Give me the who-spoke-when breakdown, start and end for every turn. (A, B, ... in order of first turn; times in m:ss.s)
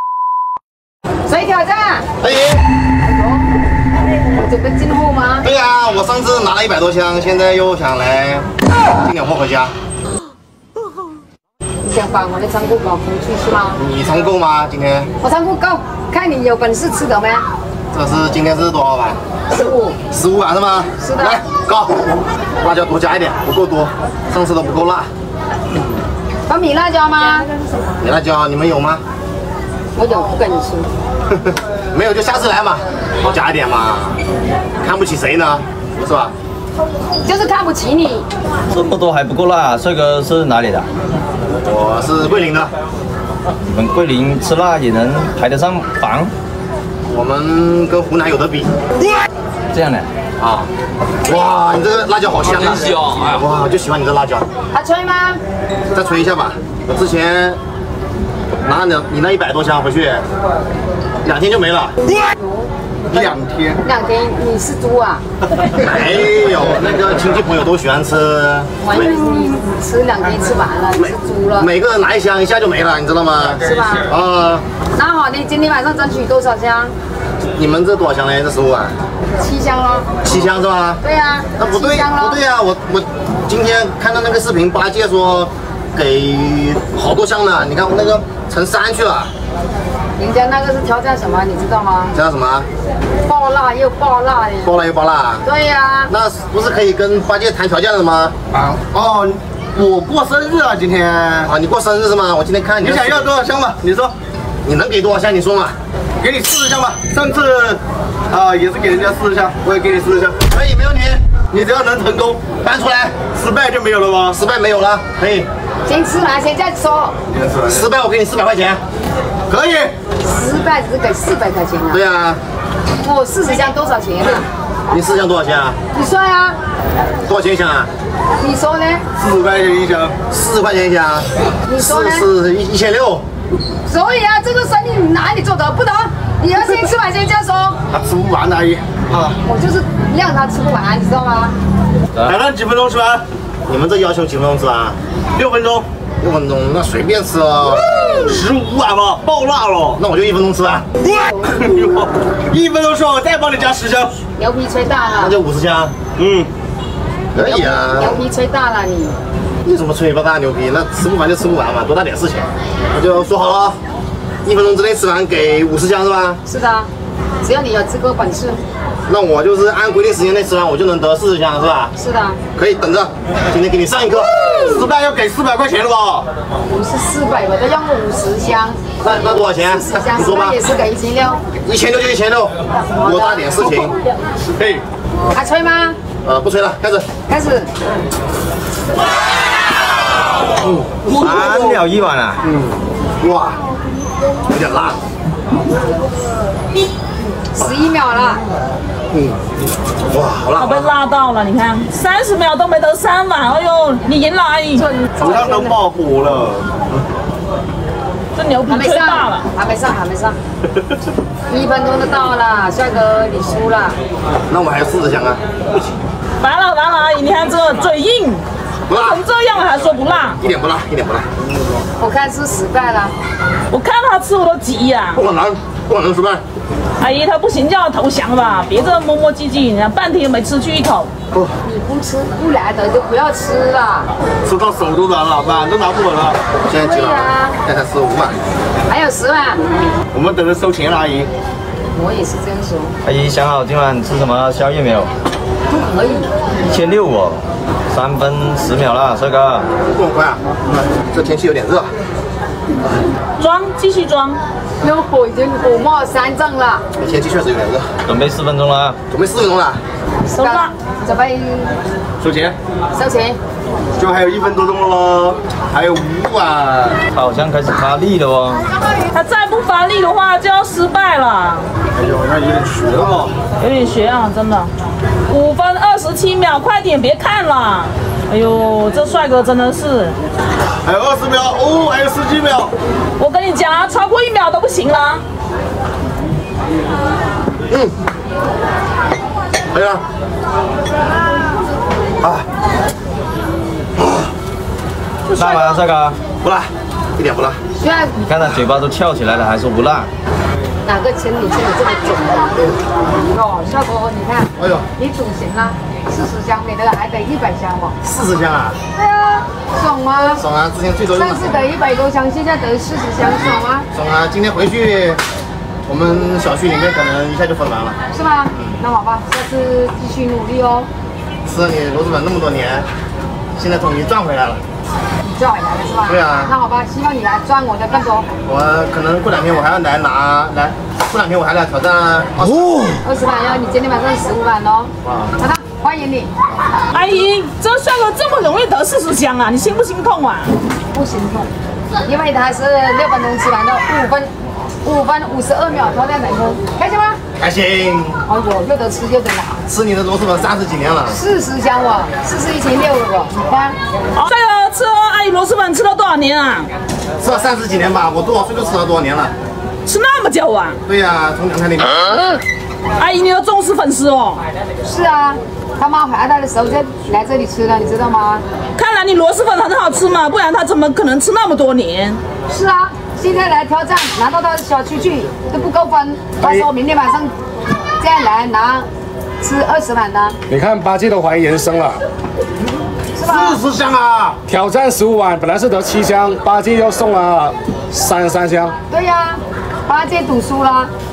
0:01.3-0:02.1 A
0:02.2-0:02.6 B
0:03.0-0:03.5 A
0:04.4-0:05.5 A
0:05.4-0:09.7 B
0:11.8-0:13.8 A
0:13.8-0:15.1 B
0:15.2-0:17.5 A
0:17.9-0:19.2 B
0:19.5-0:20.0 A
0:20.1-0:25.1 B
0:21.0-0:21.4 A
0:26.5-0:27.5 A
0:28.0-0:29.0 B
0:30.0-0:30.9 A
0:31.3-0:34.2 B
0:34.8-0:36.3 B
0:37.2-0:38.3 A
0:38.7-0:40.9 C
0:41.6-0:42.7 B
0:43.6-0:46.3 C
0:47.1-0:48.7 B
0:49.7-0:50.1 C
0:50.4-0:50.7 B
0:51.2-0:54.5 B
0:54.7-0:55.4 A
0:55.9-0:57.6 B
0:58.6-1:00.2 B
1:01.2-1:01.9 B
1:02.3-1:02.7 A
1:03.1-1:03.8 D
1:03.8-1:05.2 A
1:05.7-1:09.2 B
1:08.8-1:11.7 A
1:11.0-1:14.6 B
1:13.6-1:14.1 A
1:14.9-1:16.9 A
1:17.6-1:19.0 B
1:19.4-1:20.1 A
1:20.2-1:21.0 B
1:21.0-1:22.4 A
1:21.6-1:29.3 B
1:30.2-1:32.1 A
1:32.1-1:32.7 B
1:33.2-1:34.8 A
1:34.6-1:35.4 B
1:35.4-1:36.1 A
1:36.1-1:38.4 B
1:38.5-1:41.5 D
1:41.5-1:43.3 B
1:42.8-1:44.1 D
1:44.6-1:45.8 B
1:46.2-1:50.4 D
1:50.5-1:51.2 B
1:51.5-1:52.6 D
1:52.6-1:53.2 B
1:53.3-1:54.4 D
1:54.3-1:55.5 B
1:55.8-1:57.2 A
1:57.3-1:57.8 D
1:57.7-1:58.8 B
1:59.5-1:59.9 D
2:00.2-2:02.0 A
2:01.9-2:02.4 B
2:03.0-2:04.5 A
2:04.9-2:05.8 B
2:05.9-2:06.6 A
2:07.2-2:07.9 B
2:08.4-2:09.0 A
2:09.2-2:10.2 D
2:10.3-2:13.2 B
2:11.7-2:12.3 A
2:13.9-2:17.8 A
2:17.9-2:19.3 D
2:19.4-2:21.6 A
2:22.2-2:23.2 D
2:23.7-2:25.0 B
2:25.3-2:25.9 D
2:26.2-2:27.9 B
2:28.1-2:30.0 D
2:30.0-2:30.9 B
2:31.4-2:34.1 D
2:34.4-2:35.4 A
2:35.2-2:35.9 B
2:36.2-2:36.5 D
2:37.3-2:38.2 B
2:37.4-2:39.2 A
2:39.6-2:43.8 B
2:44.4-2:46.4 B
2:46.4-2:46.9 A
2:47.4-2:48.6 A
2:49.1-2:51.9 B
2:52.0-2:52.4 A
2:52.6-2:54.3 B
2:54.4-2:56.3 D
2:56.7-2:58.8 A
2:59.0-3:00.6 B
2:59.7-3:01.4 A
3:01.6-3:04.0 B
3:02.7-3:03.9 A
3:04.5-3:04.8 D
3:05.3-3:06.0 A
3:06.2-3:07.1 B
3:07.3-3:07.7 A
3:10.6-3:11.2 B
3:11.1-3:11.9 D
3:11.2-3:12.4 C
3:13.2-3:13.6 B
3:14.5-3:15.0 B
3:17.5-3:18.4 A
3:20.1-3:20.9 B
3:20.6-3:24.9 E
3:24.8-3:25.8 A
3:25.2-3:26.8 D
3:28.4-3:29.5 E
3:28.7-3:30.4 A
3:31.5-3:34.0 A
3:34.5-3:35.4 B
3:36.4-3:40.4 E
3:38.9-3:39.2 B
3:40.4-3:41.3 B
3:42.0-3:43.2 A
3:43.7-3:45.2 E
3:45.2-3:46.4 B
3:47.0-3:51.1 E
3:51.6-3:54.1 A
3:54.4-3:56.4 D
3:56.6-3:58.4 B
3:56.7-3:57.6 A
3:58.9-3:59.6 A
4:00.1-4:01.3 D
4:01.9-4:03.0 A
4:03.0-4:05.1 C
4:05.7-4:06.3 A
4:06.7-4:09.7 C
4:09.9-4:11.9 B
4:13.4-4:14.4 E
4:14.8-4:16.8 A
4:17.0-4:17.9 B
4:18.0-4:19.0 C
4:19.1-4:19.8 B
4:20.3-4:21.8 A
4:20.3-4:20.7 E
4:22.2-4:22.6 D
4:22.9-4:23.4 A
4:24.0-4:27.0 D
4:27.1-4:28.7 C
4:29.1-4:31.7 E
4:32.0-4:33.3 D
4:33.6-4:34.7 E
4:35.3-4:40.2 E
4:40.8-4:42.7 D
4:43.2-4:45.2 E
4:49.7-4:50.0 B
4:55.3-4:55.8 B
4:55.4-4:56.2 C
4:56.4-4:57.6 B
4:57.8-4:58.2 A
4:58.2-5:00.1 C
5:00.8-5:08.0 A
5:04.6-5:04.9 B
5:08.0-5:08.8 B
5:08.9-5:10.4 A
5:10.4-5:11.7 B
5:11.1-5:13.9 A
5:13.9-5:15.2 B
5:15.9-5:18.0 B
5:18.1-5:20.9 A
5:21.4-5:22.9 B
5:23.6-5:24.6 B
5:25.2-5:28.3 A
5:26.1-5:26.5 B
5:28.5-5:32.9 B
5:33.0-5:36.3 A
5:35.0-5:35.3 B
5:36.9-5:40.5 E
5:40.9-5:41.5 A
5:42.0-5:44.3 A
5:44.8-5:47.2 A
5:47.4-5:48.2 B
5:48.3-5:49.6 A
5:49.7-5:51.2 B
5:51.1-5:53.8 A
5:54.2-5:56.7 E
5:57.2-5:59.3 B
5:59.8-6:00.8 E
6:00.9-6:02.3 B
6:03.0-6:04.4 E
6:04.8-6:08.4 A
6:08.8-6:12.2 E
6:12.5-6:17.3 A
6:18.0-6:18.9 A
6:19.4-6:20.4 A
6:20.5-6:22.0 F
6:23.1-6:23.6 A
6:23.3-6:24.4 B
6:24.5-6:28.8 F
6:28.9-6:30.9 A